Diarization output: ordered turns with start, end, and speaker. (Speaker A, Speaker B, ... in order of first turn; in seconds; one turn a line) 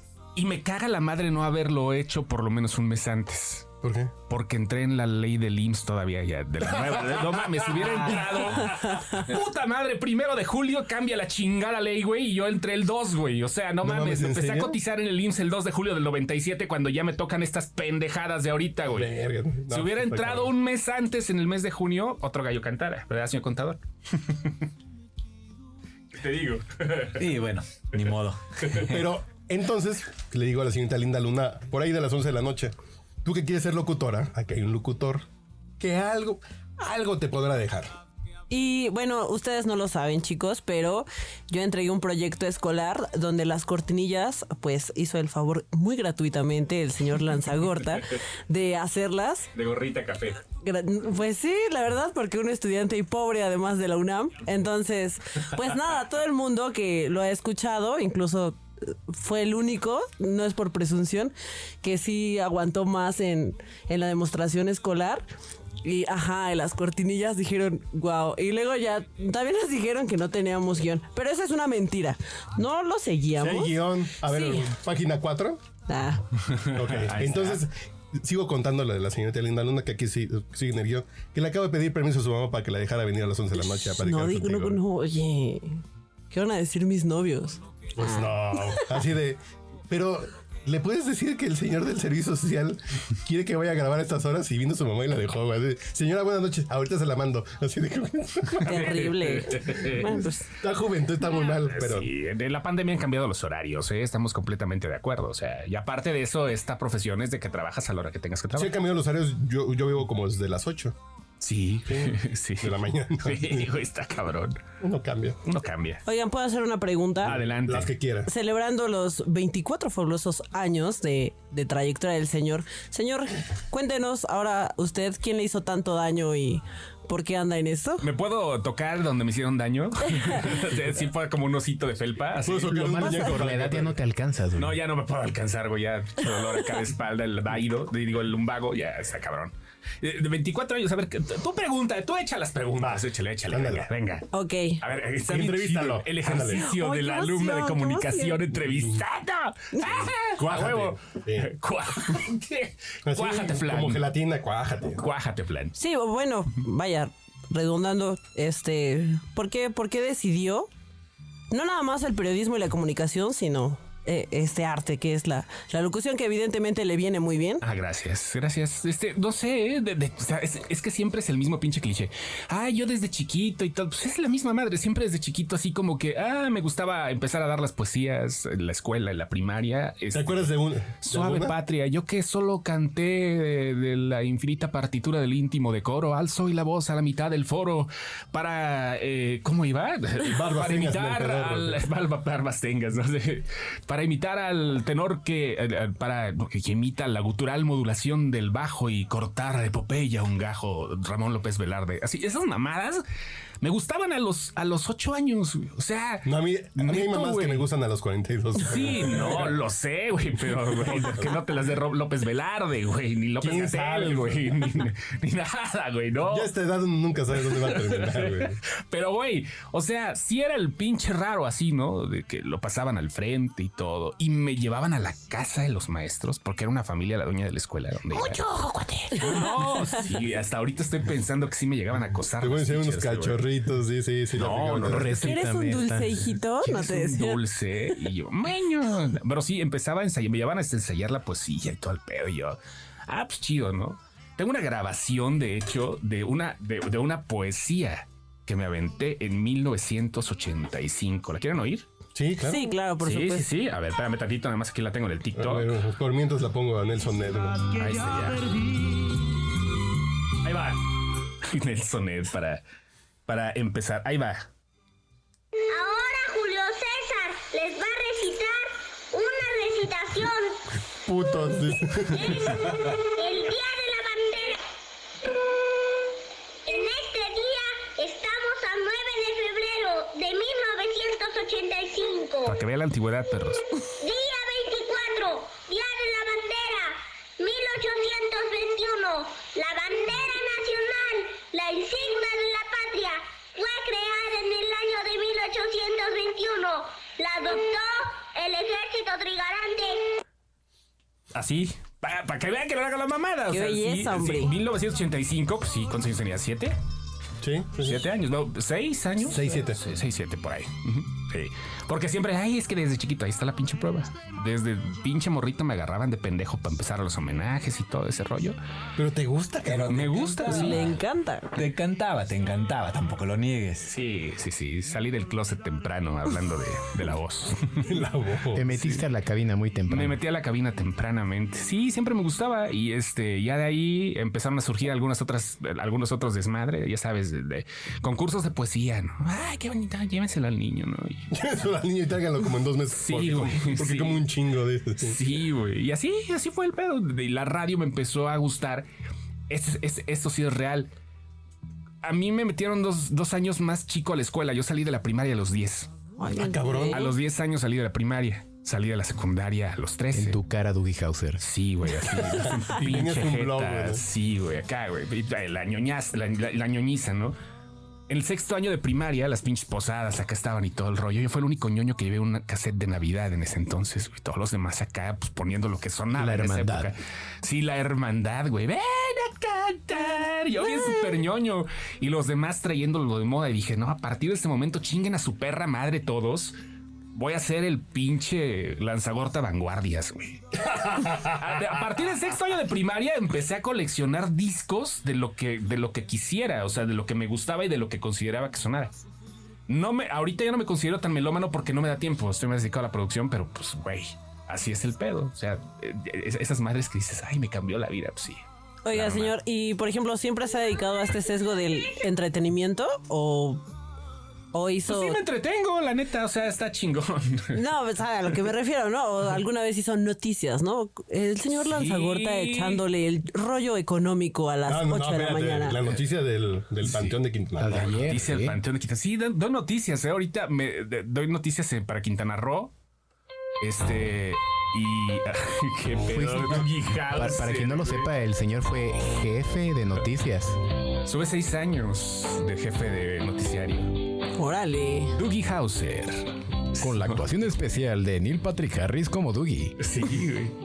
Speaker A: 0.3-3.7
Speaker B: 3.8-4.1
Speaker A: 4.3-19.1
Speaker C: 8.7-9.2
Speaker B: 13.8-14.8
Speaker B: 18.9-20.5
Speaker A: 19.7-24.6
Speaker A: 26.1-27.3
Speaker D: 27.2-28.8
Speaker B: 28.8-35.2
Speaker B: 35.8-37.9
Speaker C: 38.5-49.5
Speaker A: 49.5-50.4
Speaker C: 50.6-65.3
Speaker C: 65.8-74.7
Speaker B: 73.3-75.6
Speaker C: 75.9-76.3
Speaker A: 76.4-77.7
Speaker B: 76.7-84.8
Speaker C: 83.5-89.0
Speaker B: 88.0-99.0
Speaker A: 98.6-100.2
Speaker C: 98.6-100.5
Speaker B: 100.0-102.1
Speaker A: 101.3-108.8
Speaker B: 108.5-111.0
Speaker A: 111.4-114.6
Speaker B: 111.9-113.7
Speaker B: 114.8-115.4
Speaker A: 115.4-116.0
Speaker C: 116.1-117.4
Speaker A: 117.2-117.9
Speaker B: 117.3-118.3
Speaker C: 118.3-128.1
Speaker A: 128.0-133.3
Speaker B: 132.4-134.0
Speaker E: 132.7-134.8
Speaker A: 134.6-144.3
Speaker B: 142.8-143.9
Speaker C: 144.3-144.8
Speaker A: 144.8-154.1
Speaker B: 145.2-146.7
Speaker C: 146.4-148.5
Speaker B: 148.7-149.0
Speaker C: 149.7-150.1
Speaker B: 150.3-151.5
Speaker B: 153.1-155.0
Speaker A: 155.0-155.8
Speaker C: 155.8-160.7
Speaker C: 161.5-167.6
Speaker A: 167.6-203.0
Speaker B: 180.1-181.5
Speaker B: 190.2-191.8
Speaker A: 203.6-207.7
Speaker B: 206.2-209.6
Speaker A: 208.6-216.5
Speaker B: 210.7-211.3
Speaker B: 213.4-214.8
Speaker B: 216.3-218.6
Speaker A: 217.4-233.4
Speaker C: 229.1-230.0
Speaker B: 232.4-235.2
Speaker A: 234.3-235.3
Speaker E: 234.8-236.3
Speaker C: 235.2-237.4
Speaker A: 236.6-251.9
Speaker B: 252.2-252.7
Speaker C: 252.4-253.5
Speaker A: 253.0-255.7
Speaker B: 255.4-257.7
Speaker A: 257.7-258.5
Speaker A: 260.4-260.8
Speaker A: 261.4-262.6
Speaker A: 263.3-264.5
Speaker F: 265.7-270.7
Speaker B: 271.1-272.9
Speaker F: 272.1-274.6
Speaker F: 276.6-282.6
Speaker A: 282.5-283.6
Speaker F: 284.0-300.1
Speaker A: 301.3-306.8
Speaker C: 303.5-304.6
Speaker B: 307.4-308.0
Speaker A: 307.8-318.6
Speaker B: 309.2-309.8
Speaker B: 319.0-320.2
Speaker D: 319.6-321.0
Speaker A: 319.8-320.9
Speaker C: 320.5-321.6
Speaker D: 321.6-323.9
Speaker A: 323.9-327.9
Speaker B: 327.9-328.8
Speaker E: 328.5-330.2
Speaker A: 329.9-341.3
Speaker B: 341.3-345.2
Speaker A: 342.9-344.2
Speaker A: 345.0-348.9
Speaker A: 349.5-350.9
Speaker A: 352.0-355.9
Speaker C: 356.2-357.1
Speaker B: 356.3-357.1
Speaker A: 356.9-360.4
Speaker E: 360.1-361.4
Speaker A: 361.4-367.4
Speaker B: 362.2-364.0
Speaker A: 368.1-386.6
Speaker E: 376.1-376.9
Speaker A: 387.1-398.9
Speaker A: 399.7-409.4
Speaker C: 408.9-413.6
Speaker C: 414.5-415.2
Speaker A: 414.9-417.6
Speaker C: 417.5-425.8
Speaker A: 421.5-422.8
Speaker B: 424.7-427.9
Speaker A: 426.8-427.2
Speaker E: 427.6-428.6
Speaker A: 427.7-432.7
Speaker A: 433.6-438.1
Speaker E: 436.0-440.6
Speaker A: 441.1-444.0
Speaker C: 444.4-445.2
Speaker A: 445.2-447.3
Speaker E: 446.8-449.8
Speaker A: 449.8-450.6